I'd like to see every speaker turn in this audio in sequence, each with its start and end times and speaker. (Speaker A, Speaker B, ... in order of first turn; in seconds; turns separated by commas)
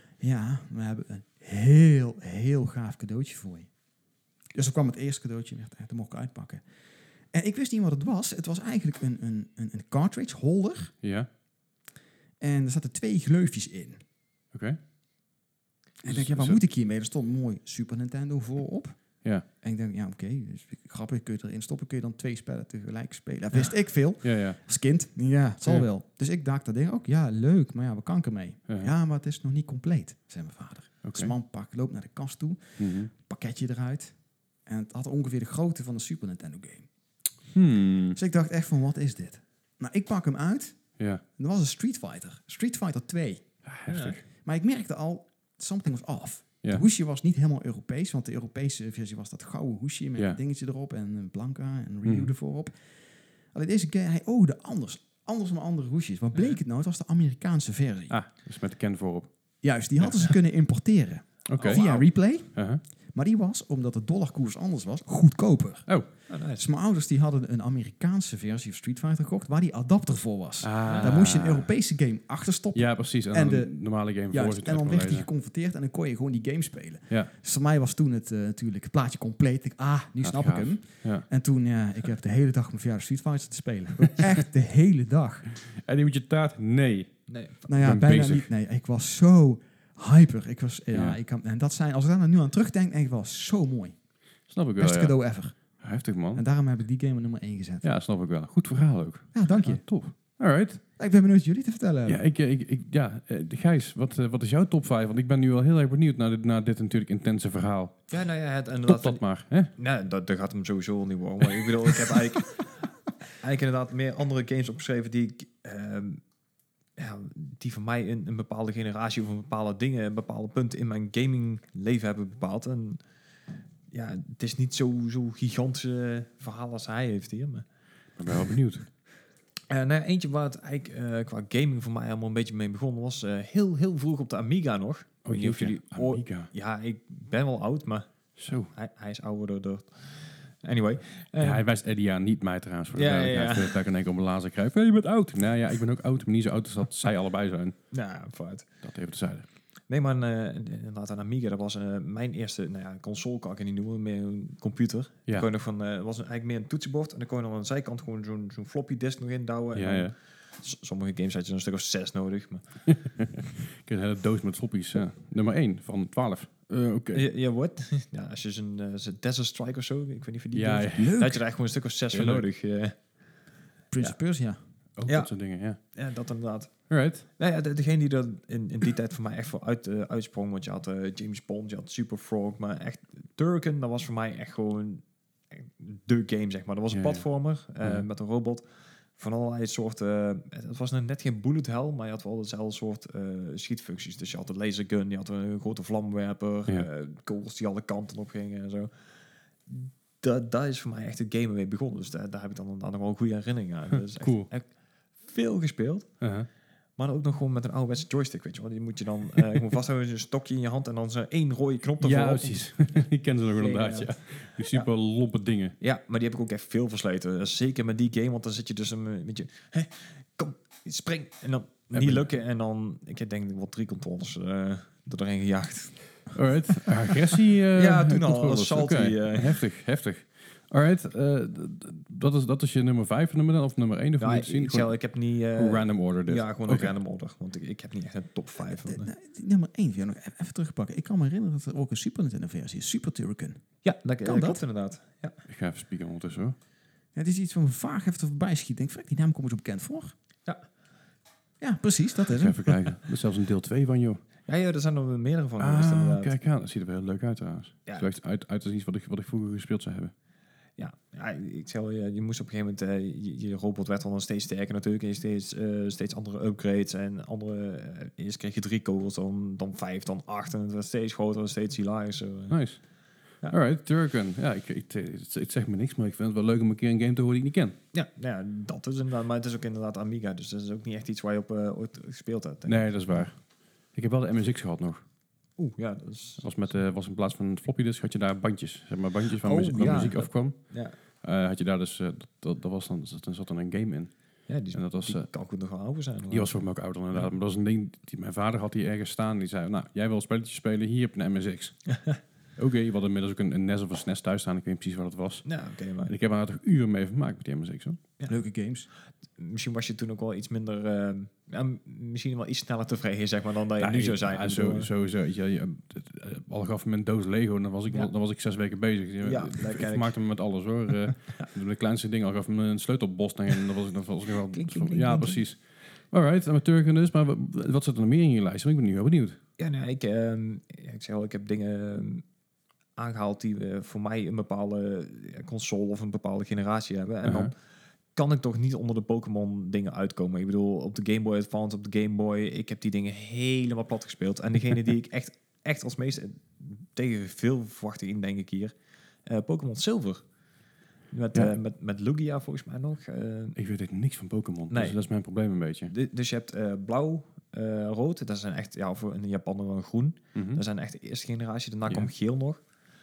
Speaker A: 0.2-3.7, Speaker A: 4.5-6.6, Speaker A: 7.3-10.9, Speaker B: 11.0-11.3, Speaker A: 12.4-14.0, Speaker B: 14.5-14.8, Speaker A: 16.0-36.9, Speaker B: 16.0-16.6, Speaker B: 24.2-24.6, Speaker B: 31.0-31.3, Speaker B: 32.8-33.1, Speaker B: 37.5-38.2, Speaker A: 38.1-43.5, Speaker B: 41.0-41.2, Speaker B: 43.6-44.2, Speaker C: 43.9-44.2, Speaker A: 44.4-52.8, Speaker B: 52.0-52.3, Speaker A: 53.5-58.2, Speaker B: 58.1-59.3, Speaker A: 59.6-85.5, Speaker B: 61.5-61.9, Speaker C: 61.6-62.1, Speaker B: 62.5-62.8, Speaker C: 66.3-66.7, Speaker B: 70.6-71.7, Speaker C: 70.9-71.3, Speaker B: 72.7-75.3, Speaker B: 80.2-81.3, Speaker B: 85.6-88.5, Speaker C: 87.3-87.7, Speaker A: 87.7-94.0, Speaker B: 90.9-91.2, Speaker B: 94.5-96.4, Speaker A: 94.8-95.8, Speaker A: 96.3-97.8, Speaker B: 97.8-100.8, Speaker A: 99.3-99.8, Speaker A: 101.0-102.2, Speaker B: 102.1-108.1, Speaker C: 108.1-116.2, Speaker B: 108.8-109.7, Speaker C: 117.0-123.0, Speaker C: 123.9-127.6, Speaker B: 128.2-128.9, Speaker C: 129.7-138.1, Speaker B: 135.2-136.5, Speaker B: 138.4-138.7, Speaker C: 138.7-141.6, Speaker B: 141.4-147.8, Speaker C: 142.9-143.8, Speaker C: 147.9-148.7, Speaker B: 148.8-149.5, Speaker C: 149.9-163.2, Speaker B: 159.7-160.1, Speaker B: 162.9-167.3, Speaker C: 167.1-173.2, Speaker B: 170.5-171.2, Speaker A: 170.9-171.4, Speaker B: 172.1-172.5, Speaker A: 173.9-174.6, Speaker B: 175.0-175.8, Speaker C: 175.1-199.1, Speaker B: 176.9-177.3, Speaker B: 186.9-187.2, Speaker C: 199.7-206.2, Speaker B: 204.1-204.5, Speaker B: 206.2-206.5, Speaker C: 207.0-213.0, Speaker B: 212.0-215.8, Speaker C: 213.6-214.9, Speaker C: 215.8-226.4, Speaker B: 221.9-222.3, Speaker B: 226.3-234.9, Speaker C: 227.7-229.6, Speaker C: 234.2-239.1, Speaker B: 235.6-236.9, Speaker A: 238.6-243.7, Speaker C: 243.8-245.4, Speaker A: 244.2-244.6, Speaker B: 245.5-246.6, Speaker A: 247.2-250.1, Speaker A: 251.6-252.8, Speaker B: 252.3-254.2, Speaker C: 254.5-256.4, Speaker B: 255.6-260.1, Speaker C: 260.8-272.6, Speaker B: 272.5-272.9, Speaker B: 273.5-277.8, Speaker C: 277.9-283.3, Speaker B: 282.7-285.0, Speaker C: 285.6-286.7, Speaker B: 286.4-295.3, Speaker C: 289.4-291.0, Speaker C: 294.5-297.3, Speaker B: 296.3-301.9, Speaker B: 302.6-305.4, Speaker C: 305.4-306.1, Speaker B: 306.1-308.0, Speaker A: 308.3-308.9, Speaker C: 309.4-314.9, Speaker B: 313.8-329.4, Speaker C: 319.2-320.2, Speaker C: 324.4-325.4, Speaker C: 329.6-332.2, Speaker C: 333.0-337.6, Speaker B: 337.2-337.5, Speaker C: 338.1-348.8, Speaker C: 349.3-350.2, Speaker C: 351.1-353.6, Speaker B: 353.6-355.9, Speaker C: 354.7-355.0, Speaker C: 355.9-362.6, Speaker B: 360.4-360.6